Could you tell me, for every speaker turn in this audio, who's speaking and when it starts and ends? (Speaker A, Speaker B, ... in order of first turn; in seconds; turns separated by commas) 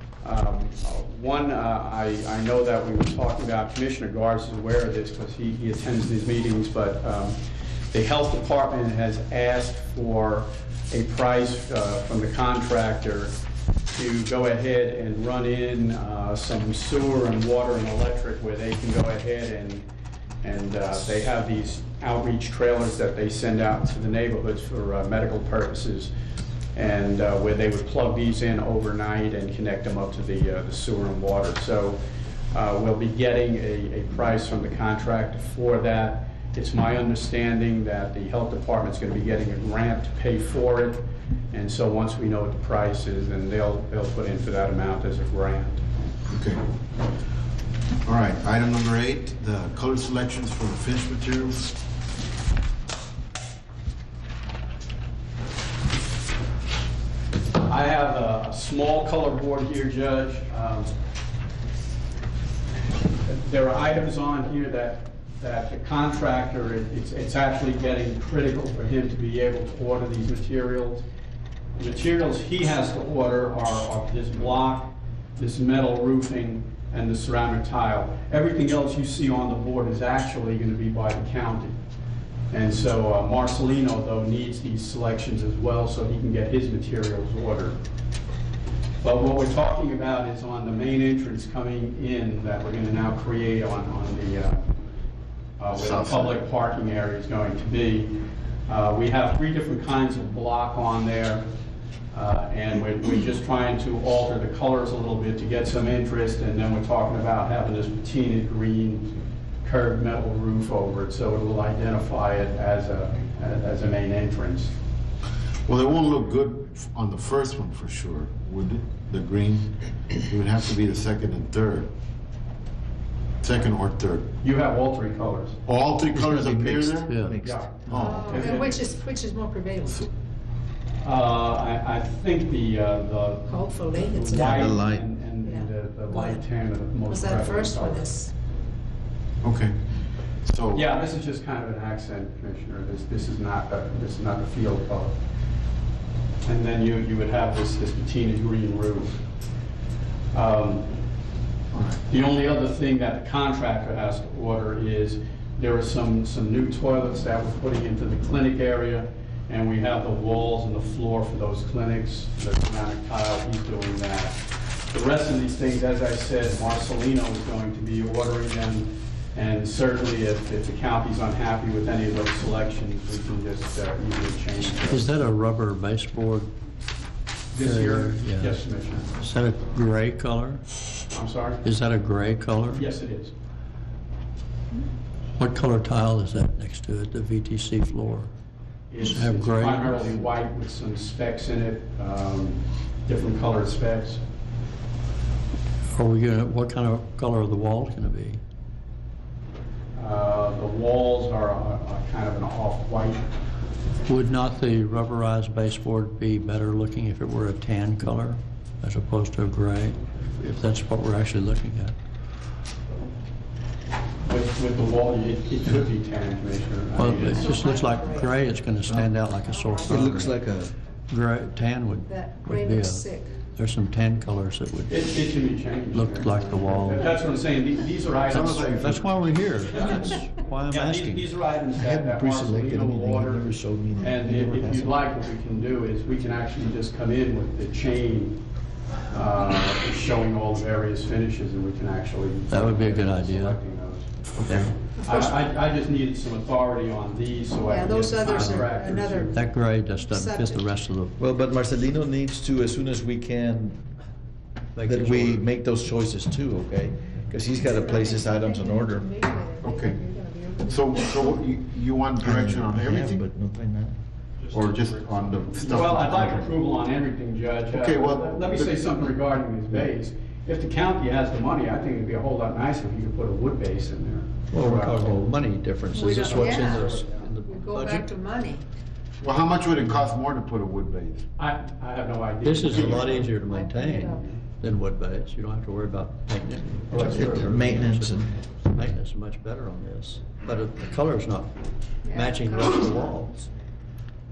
Speaker A: 0.2-7.4, Speaker A: 7.9-13.3, Speaker A: 13.9-19.8, Speaker A: 20.4-26.1, Speaker A: 26.7-32.0, Speaker A: 32.5-45.8, Speaker B: 46.3-46.6, Speaker B: 48.0-51.7, Speaker A: 57.6-60.9, Speaker A: 63.2-71.0, Speaker A: 71.8-81.8, Speaker A: 82.5-87.8, Speaker A: 89.0-94.7, Speaker A: 95.6-101.4, Speaker B: 95.7-96.4, Speaker A: 102.1-114.7, Speaker B: 115.6-121.9, Speaker B: 123.4-124.3, Speaker A: 124.4-125.6, Speaker B: 125.7-127.2, Speaker C: 126.1-128.2, Speaker D: 127.1-127.4, Speaker A: 127.4-128.8, Speaker B: 127.8-128.6, Speaker E: 128.0-130.1, Speaker A: 131.0-138.1, Speaker E: 133.5-134.8, Speaker C: 134.3-135.1, Speaker E: 135.4-136.4, Speaker E: 137.1-138.3, Speaker B: 139.4-139.8, Speaker B: 140.4-140.9, Speaker A: 140.7-145.2, Speaker A: 146.4-149.2, Speaker A: 150.3-150.9, Speaker B: 151.7-152.0, Speaker A: 152.1-175.1, Speaker D: 174.8-176.5, Speaker A: 177.5-179.1, Speaker D: 177.6-178.6, Speaker D: 179.1-180.6, Speaker A: 181.1-181.6, Speaker D: 181.6-182.8, Speaker A: 182.7-183.3, Speaker D: 185.3-188.3, Speaker A: 188.9-194.2, Speaker D: 189.0-190.1, Speaker D: 195.9-198.4, Speaker A: 199.9-203.2, Speaker D: 204.0-211.9, Speaker A: 214.2-217.8, Speaker D: 216.9-220.4, Speaker E: 217.3-218.3, Speaker C: 218.8-219.1, Speaker E: 219.4-220.2, Speaker C: 219.8-220.7, Speaker D: 221.1-225.2, Speaker E: 222.1-223.4, Speaker A: 224.9-228.9, Speaker D: 225.9-227.1, Speaker B: 228.2-229.0, Speaker D: 228.3-231.3, Speaker A: 229.7-238.4, Speaker C: 231.7-235.0, Speaker A: 239.1-249.4, Speaker D: 242.5-243.6, Speaker D: 244.4-244.7, Speaker E: 245.0-245.4, Speaker E: 247.7-250.7, Speaker D: 248.3-248.7, Speaker D: 249.3-251.1, Speaker C: 251.2-253.8, Speaker D: 254.7-255.5, Speaker C: 254.8-259.1, Speaker E: 257.5-261.2, Speaker B: 259.6-260.0, Speaker B: 260.6-263.2, Speaker C: 262.2-264.0, Speaker D: 264.5-264.9, Speaker B: 264.5-266.5, Speaker A: 265.6-275.2, Speaker B: 267.7-268.9, Speaker D: 274.5-278.1, Speaker E: 275.9-278.6, Speaker A: 276.3-277.2, Speaker B: 279.2-281.3, Speaker A: 281.4-284.4, Speaker D: 282.4-293.5, Speaker E: 282.9-284.2, Speaker A: 286.9-287.8, Speaker C: 287.0-288.5, Speaker E: 292.0-293.1